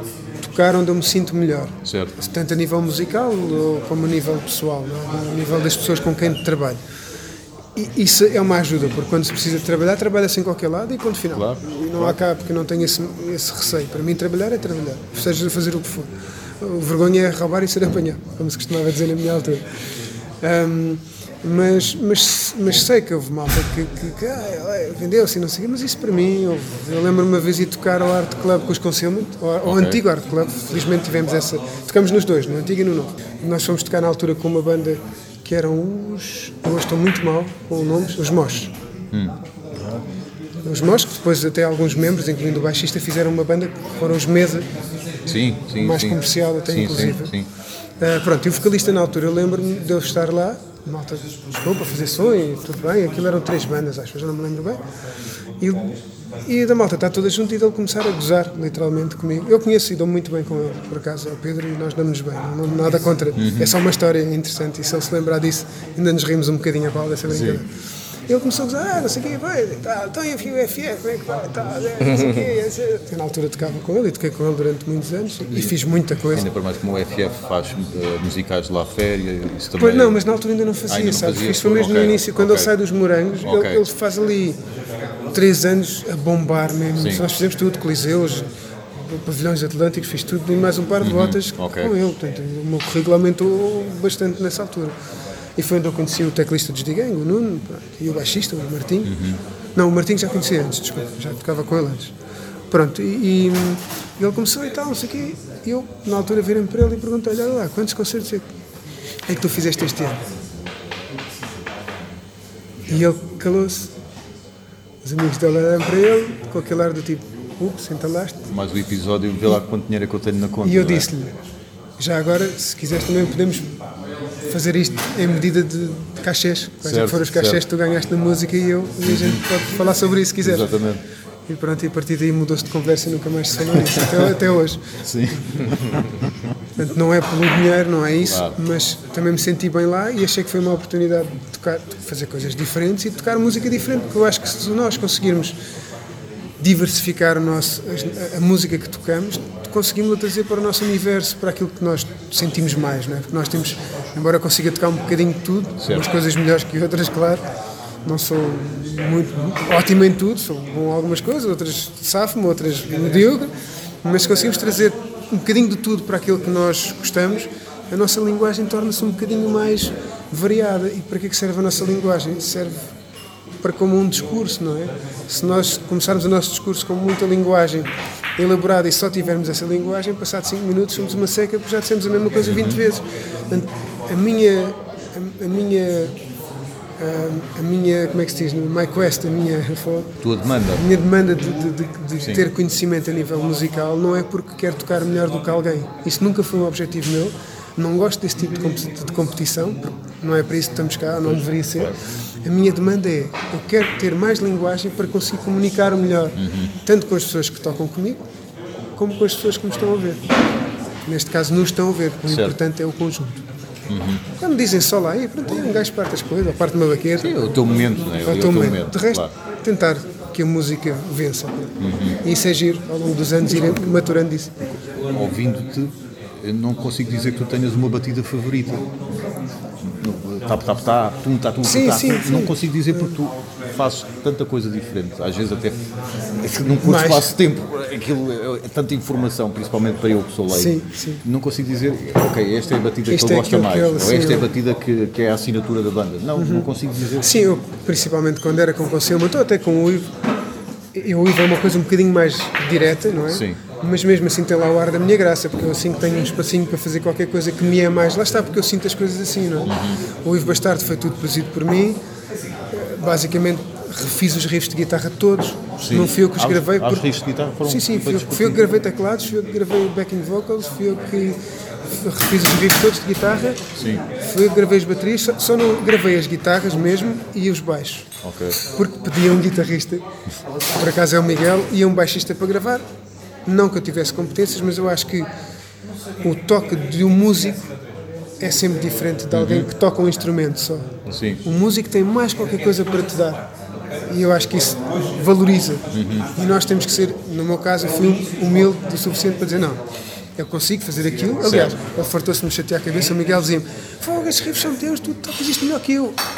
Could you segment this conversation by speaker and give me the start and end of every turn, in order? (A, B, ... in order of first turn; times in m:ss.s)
0:00.4-0:06.8 A
0:01.8-0:02.2 B
0:07.8-0:19.6 A
0:11.3-0:12.2 B
0:20.4-0:38.7 A
0:29.6-0:30.0 B
0:39.1-0:39.4 B
0:40.6-0:44.7 A
0:45.3-0:47.5 B
0:45.8-0:47.4 A
0:48.0-0:54.8 A
0:55.6-1:07.7 A
1:03.4-1:03.8 B
1:07.3-1:07.6 B
1:08.3-1:16.5 A
1:16.3-1:20.2 B
1:19.8-1:24.6 A
1:20.9-1:22.8 B
1:23.4-1:23.8 B
1:25.3-1:35.0 A
1:27.0-1:27.2 B
1:31.0-1:32.0 B
1:35.6-1:39.2 A
1:39.0-1:39.4 B
1:39.8-1:42.1 A
1:42.7-1:48.5 A
1:49.3-1:50.2 A
1:52.9-1:53.9 A
1:55.0-1:58.5 A
1:58.5-2:01.1 B
2:00.6-2:01.4 A
2:02.0-2:03.7 A
2:04.5-2:10.7 A
2:06.8-2:07.6 B
2:09.0-2:09.4 B
2:10.4-2:11.0 B
2:11.5-2:15.0 A
2:13.9-2:14.2 B
2:15.0-2:16.5 B
2:16.8-2:25.6 A
2:18.2-2:18.6 B
2:26.6-2:37.4 A
2:35.8-2:36.1 B
2:38.0-2:43.5 A
2:44.0-2:52.9 A
2:53.6-3:06.2 A
3:02.4-3:02.8 B
3:07.0-3:10.2 A
3:10.2-3:10.8 B
3:10.7-3:28.2 A
3:12.2-3:12.5 B
3:26.4-3:26.7 B
3:29.0-3:30.2 A
3:31.1-3:33.4 A
3:32.3-3:32.6 B
3:33.9-3:34.2 B
3:34.4-3:37.4 A
3:37.2-3:39.3 B
3:38.0-3:44.5 A
3:41.8-3:42.2 B
3:43.4-3:44.0 B
3:44.6-3:48.9 B
3:49.8-3:55.8 B
3:51.6-3:53.2 A
3:56.4-4:07.4 B
3:56.8-3:57.3 A
4:00.5-4:01.2 A
4:03.1-4:04.5 A
4:06.4-4:10.1 A
4:10.9-4:22.0 A
4:13.3-4:13.6 B
4:19.7-4:20.0 B
4:22.7-4:31.4 A
4:25.8-4:28.6 B
4:31.9-4:40.0 A
4:33.7-4:34.0 B
4:38.2-4:38.6 B
4:40.7-4:42.8 A
4:43.5-4:45.3 A
4:46.2-4:47.7 A
4:48.4-4:50.9 A
4:49.3-4:49.7 B
4:51.1-4:51.4 B
4:51.4-4:53.5 A
4:54.1-4:59.8 A
4:55.9-4:56.3 B
5:00.4-5:06.2 A
5:01.4-5:01.8 B